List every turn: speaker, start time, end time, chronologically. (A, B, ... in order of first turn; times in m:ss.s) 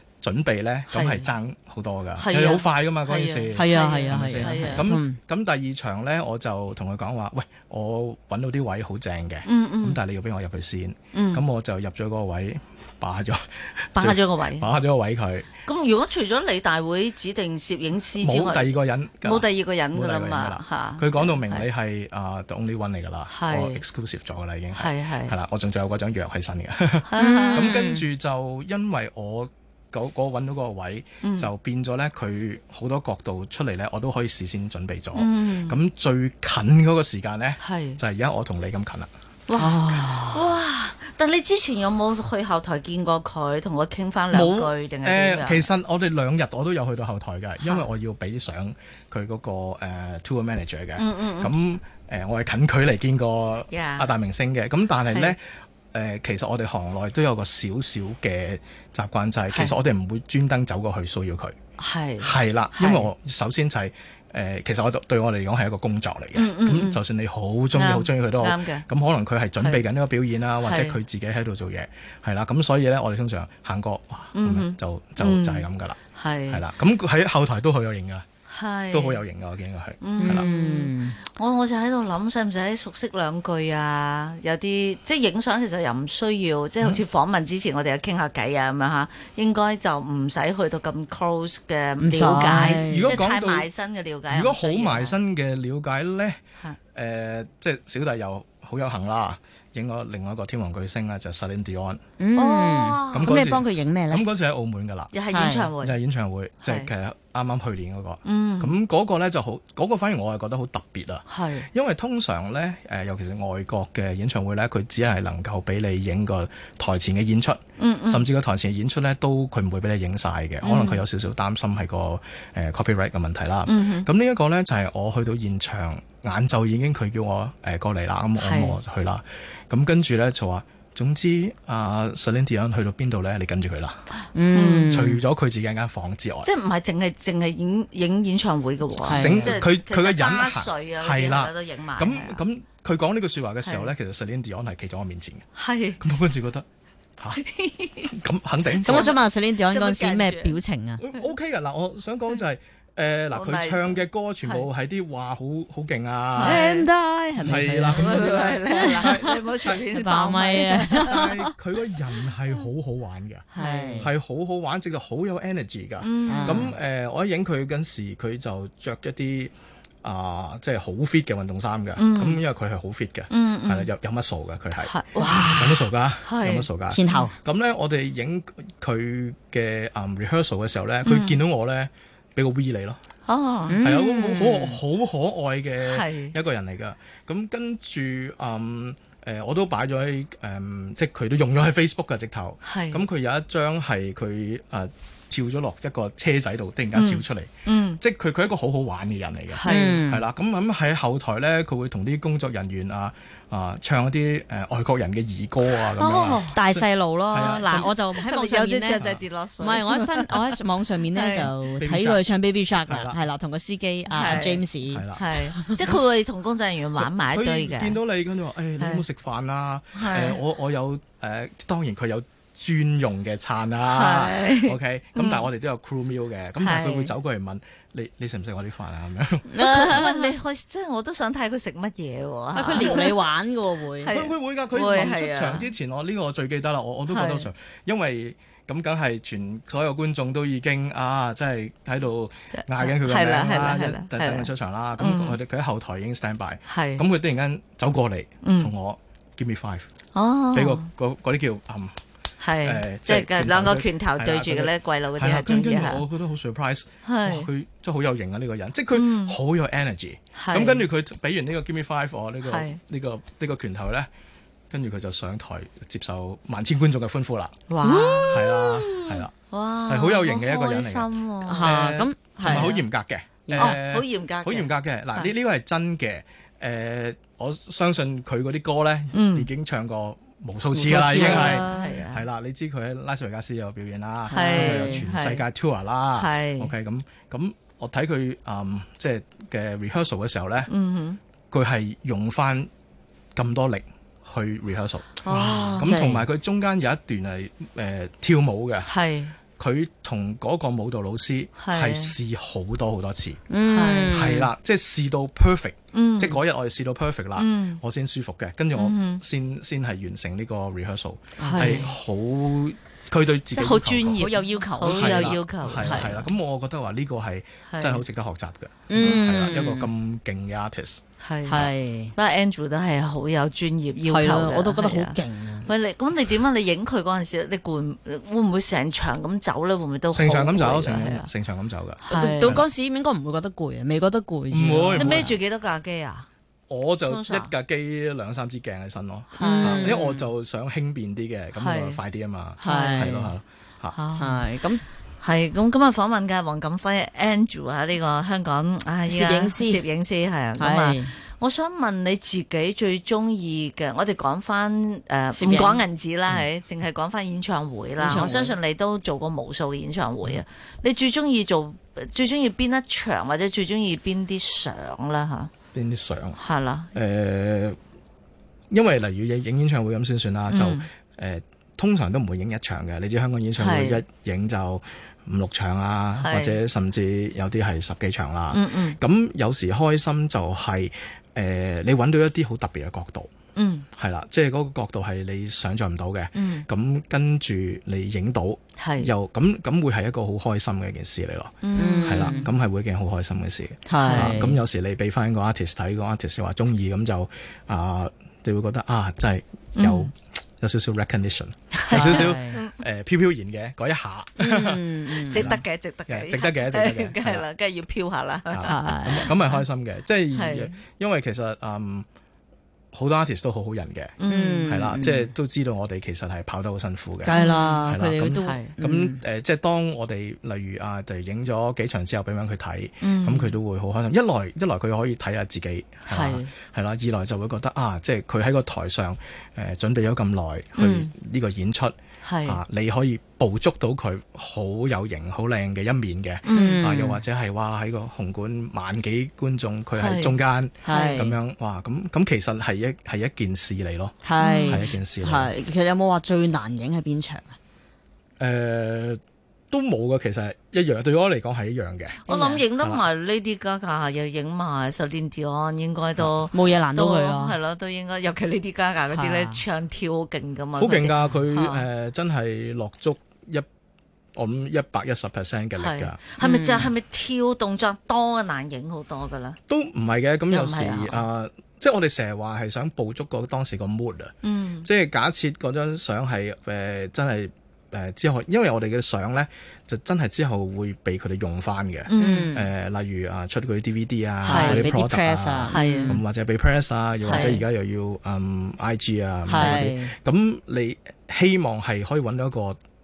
0:00.2-0:15.5 A
0:00.9-0:01.3 B
0:02.2-0:04.9 B
0:03.5-0:05.2 C
0:09.4-0:10.0 B
0:11.1-0:11.4 B
0:14.0-0:14.7 B
0:15.7-0:21.6 B
0:18.2-0:39.1 A
0:23.3-0:23.8 B
0:24.7-0:25.3 B
0:27.1-0:27.7 B
0:27.2-0:28.1 C
0:31.2-0:31.5 B
0:35.2-0:35.8 B
0:37.6-0:38.0 B
0:39.5-0:45.7 B
0:39.6-0:40.5 C
0:44.3-1:01.6 A
0:51.0-0:51.5 B
0:53.7-0:54.1 B
1:01.8-1:03.1 B
1:02.2-1:16.0 A
1:06.4-1:07.0 B
1:07.7-1:08.8 B
1:10.6-1:11.0 B
1:14.4-1:16.6 B
1:16.5-1:18.3 A
1:18.5-1:19.2 B
1:18.9-1:20.5 A
1:20.0-1:35.2 B
1:20.2-1:21.2 C
1:32.0-1:33.2 C
1:32.8-1:33.7 A
1:34.3-1:36.4 A
1:36.9-1:42.0 A
1:42.2-1:44.2 C
1:42.4-1:43.4 B
1:43.1-1:45.1 A
1:45.1-1:46.0 B
1:45.3-1:45.7 C
1:45.8-2:14.0 A
1:46.6-1:46.9 B
1:48.2-1:48.8 B
1:51.3-1:51.7 B
1:57.8-1:58.3 B
2:00.6-2:01.0 B
2:03.7-2:04.1 B
2:08.4-2:08.8 B
2:14.4-2:15.2 C
2:14.5-2:14.9 B
2:14.9-2:16.5 A
2:16.4-2:22.4 B
2:19.0-2:19.6 C
2:19.1-2:25.4 A
2:23.6-2:23.9 B
2:25.6-2:26.0 B
2:26.0-2:26.7 A
2:27.4-2:28.2 B
2:28.1-2:29.1 A
2:28.8-2:31.0 C
2:28.8-2:30.6 B
2:31.0-2:36.7 A
2:33.3-2:34.7 B
2:36.4-2:36.9 B
2:36.4-2:41.5 C
2:37.4-2:39.8 A
2:37.9-2:41.3 B
2:41.0-2:54.9 A
2:43.5-2:44.1 B
2:43.6-2:44.1 C
2:46.0-2:46.7 B
2:46.3-2:46.7 C
2:52.0-2:52.4 B
2:53.3-2:53.9 B
2:54.8-2:57.3 B
2:55.5-3:03.0 A
2:56.9-2:57.3 C
3:01.0-3:01.4 B
3:03.3-3:03.8 B
3:03.7-3:04.8 C
3:03.8-3:27.9 A
3:05.8-3:06.4 B
3:12.6-3:13.0 B
3:16.9-3:18.0 B
3:19.5-3:20.0 B
3:19.6-3:20.2 C
3:26.0-3:29.1 C
3:26.0-3:26.6 B
3:27.8-3:30.6 B
3:29.6-3:36.0 C
3:31.2-3:31.5 B
3:31.8-3:32.2 A
3:32.9-3:33.2 A
3:34.1-3:34.6 B
3:34.9-3:35.3 A
3:35.2-3:38.0 B
3:37.0-3:50.1 A
3:38.8-3:39.0 B
3:40.0-3:40.4 B
3:43.9-3:45.5 B
3:46.6-3:47.1 B
3:49.5-3:50.3 C
3:49.6-3:53.2 B
3:52.5-3:54.2 C
3:54.0-3:55.7 B
3:54.1-4:09.9 A
3:57.1-3:57.5 B
4:02.5-4:05.4 B
4:06.7-4:07.0 B
4:08.4-4:08.7 B
4:10.2-4:10.9 B
4:10.5-4:12.0 A
4:12.4-4:16.0 B
4:12.6-4:24.1 A
4:17.0-4:17.5 B
4:18.9-4:19.4 B
4:20.4-4:20.8 B
4:22.4-4:22.8 B
4:24.7-4:27.7 A
4:27.7-4:31.7 B
4:27.8-4:28.4 C
4:28.3-4:29.3 A
4:29.9-4:31.1 A
4:31.5-4:32.8 C
4:31.6-4:50.7 A
4:32.4-4:32.8 B
4:33.5-4:33.8 C
4:33.6-4:35.3 B
4:39.1-4:39.5 B
4:40.7-4:41.9 C
4:41.0-4:42.2 B
4:44.3-4:45.0 C
4:44.3-4:45.4 B
4:46.2-4:46.7 B
4:50.7-4:51.2 B
4:51.5-4:52.7 A
4:53.4-4:55.2 A
4:55.2-4:55.9 B
4:55.3-4:56.3 C
4:55.8-4:58.9 A
4:58.9-4:59.4 B
4:59.6-5:03.4 A
5:01.6-5:02.1 B
5:03.5-5:04.5 C
5:03.7-5:04.1 B
5:04.1-5:14.3 A
5:05.9-5:06.4 B
5:07.4-5:07.8 B
5:08.8-5:09.2 B
5:11.4-5:11.9 B
5:11.4-5:11.8 C
5:13.5-5:16.3 B
5:14.2-5:16.2 C
5:14.8-5:21.0 A
5:17.7-5:18.0 B
5:18.9-5:19.9 C
5:21.2-5:31.3 B
5:21.5-5:22.1 C
5:24.1-5:25.7 C
5:30.1-5:32.7 A
5:32.0-5:32.6 B
5:32.1-5:35.4 C
5:34.5-5:35.3 A
5:35.0-5:36.3 B
5:36.7-5:44.0 A
5:37.1-5:37.5 B
5:39.4-5:40.0 B
5:39.4-5:40.3 C
5:41.6-5:42.0 B
5:42.6-5:43.2 B
5:42.6-5:43.3 C
5:43.9-5:44.6 B
5:44.2-5:44.8 C
5:45.2-6:05.5 B
5:49.1-5:49.8 C
5:50.6-5:51.1 C
5:55.3-5:55.8 C
5:58.0-5:58.6 C
6:05.7-6:06.4 A
6:06.4-6:06.9 B
6:06.9-6:07.8 A
6:08.7-6:23.3 A
6:10.5-6:10.9 B
6:13.6-6:14.0 B
6:16.2-6:16.6 B
6:18.5-6:19.0 B
6:23.6-6:23.9 B
6:24.0-6:47.5 A
6:26.4-6:26.7 B
6:28.8-6:29.1 B
6:31.6-6:32.4 B
6:31.8-6:32.5 C
6:33.9-6:34.6 C
6:34.0-6:34.5 B
6:39.8-6:40.1 B
6:41.7-6:42.8 B
6:41.9-6:42.6 C
6:44.4-6:45.5 C
6:45.3-6:49.3 B
6:48.5-6:52.1 A
6:48.6-6:49.3 C
6:50.3-6:50.8 B
6:52.9-7:25.5 A
6:54.2-6:54.7 B
6:54.3-6:55.3 C
6:57.2-6:59.2 C
6:57.3-6:57.9 B
6:58.4-6:58.7 B
7:03.0-7:03.5 B
7:06.1-7:06.5 B
7:10.8-7:11.1 B
7:12.2-7:12.6 B
7:16.4-7:16.9 B
7:16.5-7:17.2 C
7:20.0-7:21.2 B
7:20.9-7:21.4 C
7:24.2-7:27.6 C
7:24.4-7:24.8 B
7:28.4-7:32.2 A
7:32.3-7:41.8 B
7:32.3-7:32.6 C
7:36.5-7:37.6 C
7:39.1-7:39.6 C
7:40.8-7:43.7 A
7:44.4-7:46.2 A
7:45.8-7:49.6 B
7:46.4-7:46.9 C
7:49.7-8:12.8 A
7:50.5-7:51.2 B
7:54.4-7:54.9 B
8:02.1-8:02.5 B
8:02.2-8:02.7 C
8:04.4-8:06.2 C
8:04.5-8:04.9 B
8:05.7-8:06.2 B
8:07.2-8:07.6 B
8:07.3-8:07.6 C
8:09.5-8:10.1 C